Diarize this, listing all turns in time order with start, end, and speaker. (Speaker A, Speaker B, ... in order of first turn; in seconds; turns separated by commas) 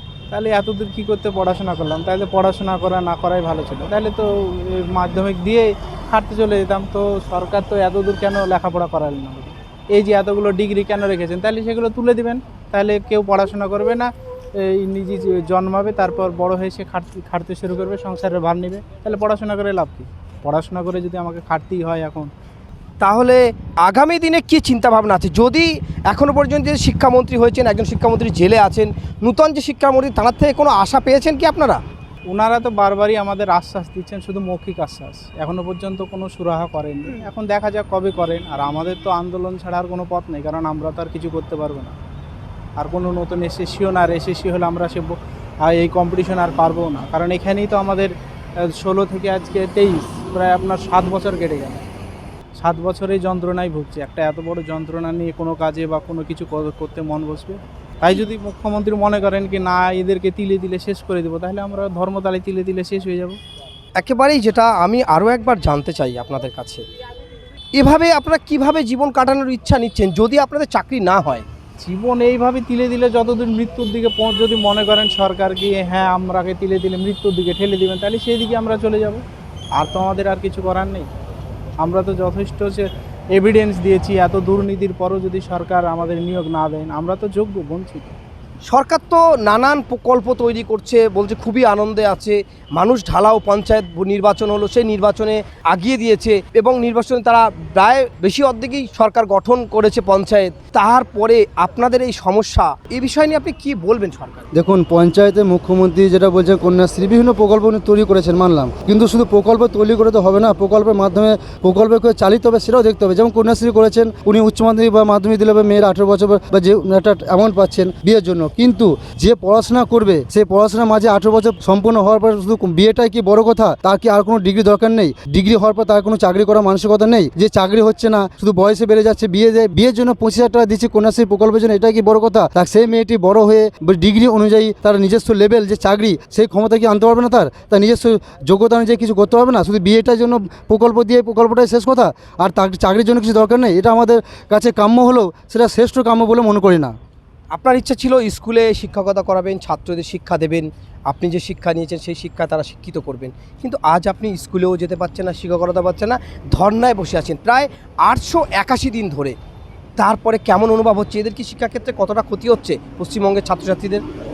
Speaker A: 0.3-22.3, Speaker B: 23.0-31.8, Speaker A: 32.3-42.0, Speaker A: 42.8-51.8, Speaker A: 52.5-63.4, Speaker B: 64.0-66.8, Speaker B: 67.7-71.4, Speaker A: 71.8-79.2, Speaker A: 79.8-81.1, Speaker A: 81.8-88.1, Speaker B: 88.7-104.5, Speaker C: 104.5-146.9, Speaker B: 147.5-159.3, Speaker B: 160.0-164.0